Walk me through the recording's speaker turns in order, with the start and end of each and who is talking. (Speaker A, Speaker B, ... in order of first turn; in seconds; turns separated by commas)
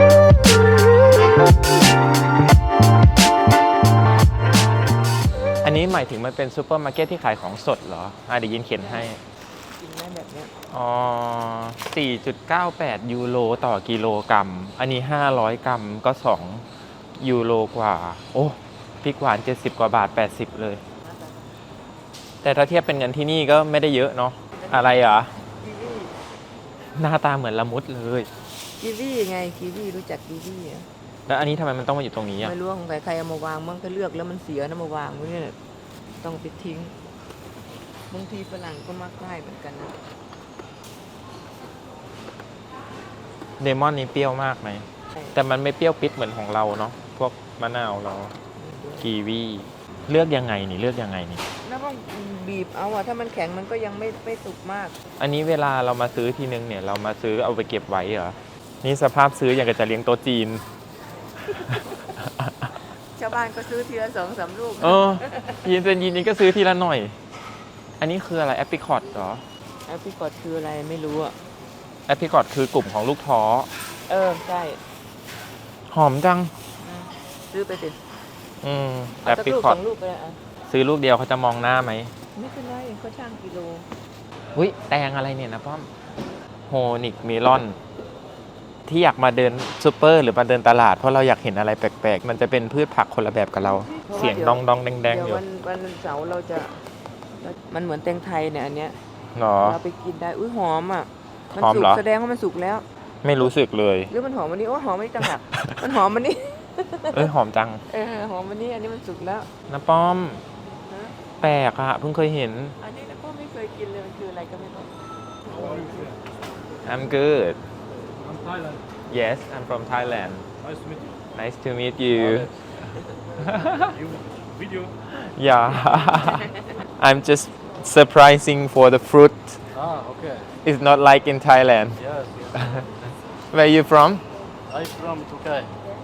Speaker A: 5.6-9.2, Speaker B: 8.8-9.1, Speaker B: 9.8-10.5, Speaker A: 10.7-20.8, Speaker A: 22.4-25.3, Speaker B: 24.6-26.2, Speaker A: 26.9-28.3, Speaker B: 28.8-30.9, Speaker A: 31.3-32.5, Speaker B: 32.4-35.6, Speaker B: 36.2-36.9, Speaker B: 38.1-40.0, Speaker A: 43.6-48.4, Speaker B: 48.5-49.1, Speaker A: 49.0-51.4, Speaker B: 51.6-54.9, Speaker A: 55.2-60.6, Speaker B: 61.7-62.0, Speaker B: 63.1-65.6, Speaker A: 64.8-67.2, Speaker A: 68.0-69.4, Speaker B: 69.8-71.4, Speaker A: 72.1-73.7, Speaker B: 74.1-74.8, Speaker A: 75.9-76.5, Speaker B: 76.8-78.0, Speaker A: 78.6-79.8, Speaker B: 79.2-80.4, Speaker A: 80.7-82.1, Speaker B: 82.3-83.9, Speaker A: 84.5-85.9, Speaker A: 86.7-87.8, Speaker A: 88.9-95.4, Speaker B: 93.8-96.9, Speaker B: 97.4-99.0, Speaker A: 99.3-99.8, Speaker B: 99.6-102.8, Speaker A: 101.5-102.0, Speaker A: 103.2-104.1, Speaker B: 104.1-107.3, Speaker A: 107.1-107.8, Speaker B: 107.9-109.5, Speaker A: 109.7-110.4, Speaker B: 110.9-111.1, Speaker A: 111.4-112.8, Speaker B: 112.8-114.9, Speaker B: 115.5-116.0, Speaker C: 115.5-116.1, Speaker A: 116.8-117.6, Speaker C: 118.2-118.8, Speaker A: 119.1-120.5, Speaker C: 120.6-121.0, Speaker A: 121.3-124.0, Speaker C: 122.1-122.5, Speaker C: 123.8-124.9, Speaker A: 125.0-129.6, Speaker C: 129.7-130.5, Speaker A: 130.6-132.0, Speaker C: 132.0-132.8, Speaker A: 132.5-132.9, Speaker A: 133.5-134.2, Speaker C: 134.7-135.7